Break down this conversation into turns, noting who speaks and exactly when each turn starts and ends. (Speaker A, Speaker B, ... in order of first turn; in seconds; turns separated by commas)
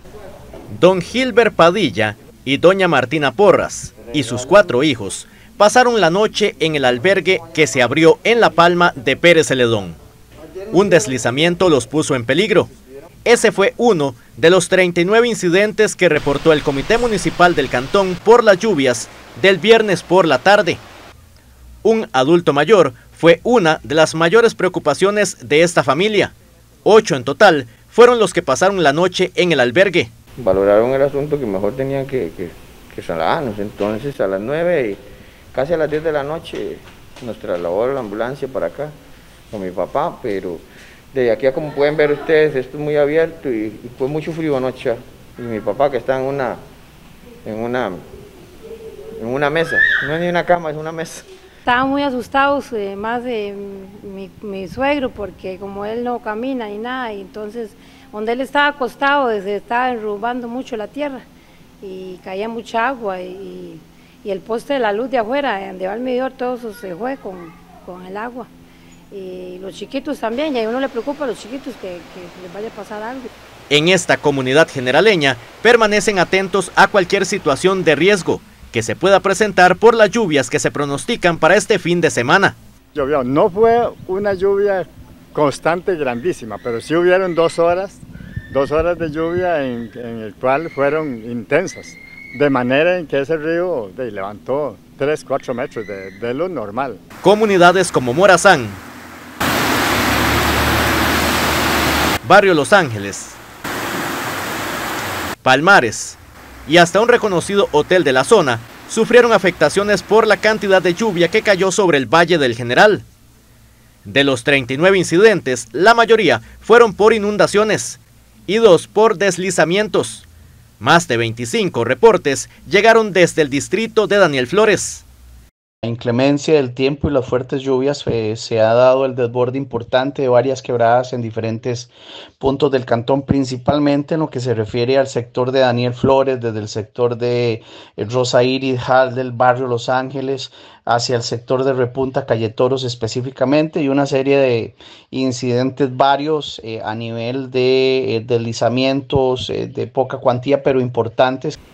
Speaker A: 0.7-10.0, Speaker A: 10.7-12.7, Speaker A: 13.2-20.8, Speaker A: 21.8-26.3, Speaker A: 26.8-30.1, Speaker B: 30.4-35.0, Speaker B: 35.5-38.9, Speaker B: 39.5-46.6, Speaker B: 47.5-48.0, Speaker B: 49.2-51.2, Speaker C: 51.7-61.2, Speaker C: 61.8-68.5, Speaker C: 69.1-73.3, Speaker A: 73.7-82.6, Speaker D: 82.9-97.0, Speaker A: 97.2-98.8, Speaker A: 102.2-103.4, Speaker A: 105.4-113.1, Speaker A: 114.0-120.2, Speaker A: 120.8-125.0, Speaker E: 125.8-151.6